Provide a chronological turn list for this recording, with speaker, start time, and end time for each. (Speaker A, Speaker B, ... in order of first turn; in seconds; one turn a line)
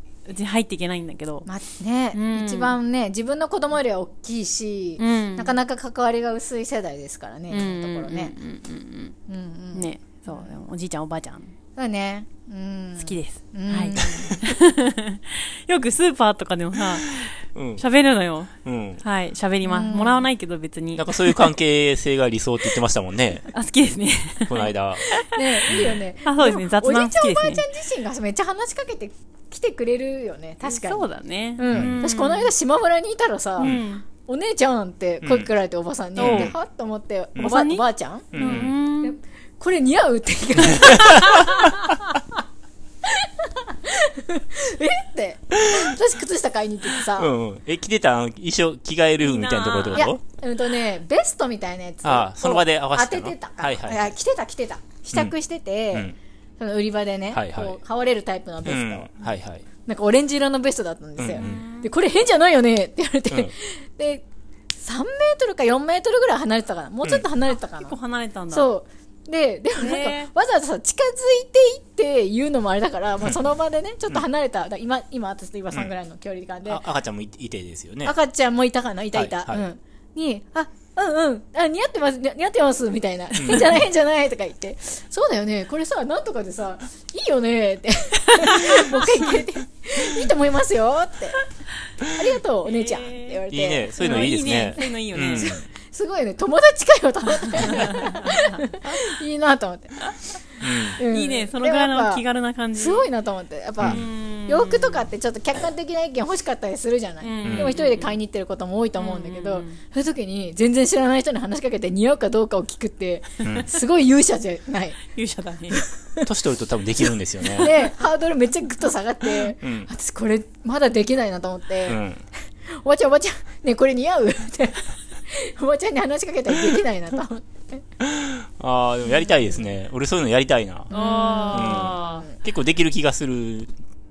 Speaker A: 0.3-1.5
Speaker B: 1.5-8.3
Speaker A: 2.1-2.8
Speaker A: 5.0-5.6
Speaker A: 7.5-9.2
Speaker B: 9.3-10.5
Speaker A: 9.7-11.5
Speaker B: 11.8-14.4
Speaker A: 13.0-21.5
Speaker C: 17.0-17.8
Speaker C: 18.6-19.0
Speaker B: 19.6-20.3
Speaker C: 21.0-23.5
Speaker A: 23.5-27.6
Speaker C: 24.5-25.1
Speaker B: 25.4-41.7
Speaker C: 25.7-26.0
Speaker A: 30.6-32.5
Speaker C: 31.7-32.0
Speaker A: 33.6-34.1
Speaker C: 35.2-35.5
Speaker C: 36.2-36.5
Speaker A: 36.2-36.5
Speaker A: 37.4-37.9
Speaker C: 38.3-38.8
Speaker A: 38.4-39.2
Speaker C: 40.9-41.5
Speaker B: 43.1-47.3
Speaker C: 47.0-50.2
Speaker A: 49.2-50.1
Speaker B: 49.9-64.2
Speaker C: 52.0-54.1
Speaker C: 57.3-57.8
Speaker C: 58.6-59.7
Speaker C: 61.2-61.6
Speaker A: 61.4-61.9
Speaker B: 64.8-68.0
Speaker A: 67.7-68.7
Speaker B: 68.5-76.8
Speaker A: 69.8-70.3
Speaker C: 76.7-78.2
Speaker B: 78.0-91.5
Speaker C: 79.1-79.6
Speaker C: 83.3-83.8
Speaker B: 92.1-100.1
Speaker A: 92.7-93.4
Speaker C: 93.5-95.7
Speaker A: 94.0-95.6
Speaker A: 97.5-99.0
Speaker C: 100.6-101.0
Speaker B: 100.6-102.2
Speaker A: 101.1-103.1
Speaker B: 102.8-115.0
Speaker A: 103.8-105.1
Speaker A: 107.2-108.2
Speaker C: 107.4-107.7
Speaker A: 109.0-109.8
Speaker A: 115.2-115.8
Speaker B: 115.7-116.3
Speaker C: 116.2-117.8
Speaker B: 117.5-122.0
Speaker C: 119.6-119.9
Speaker C: 121.9-122.2
Speaker B: 122.6-127.8
Speaker C: 128.0-133.7
Speaker B: 129.1-129.5
Speaker A: 130.9-132.3
Speaker B: 130.9-132.4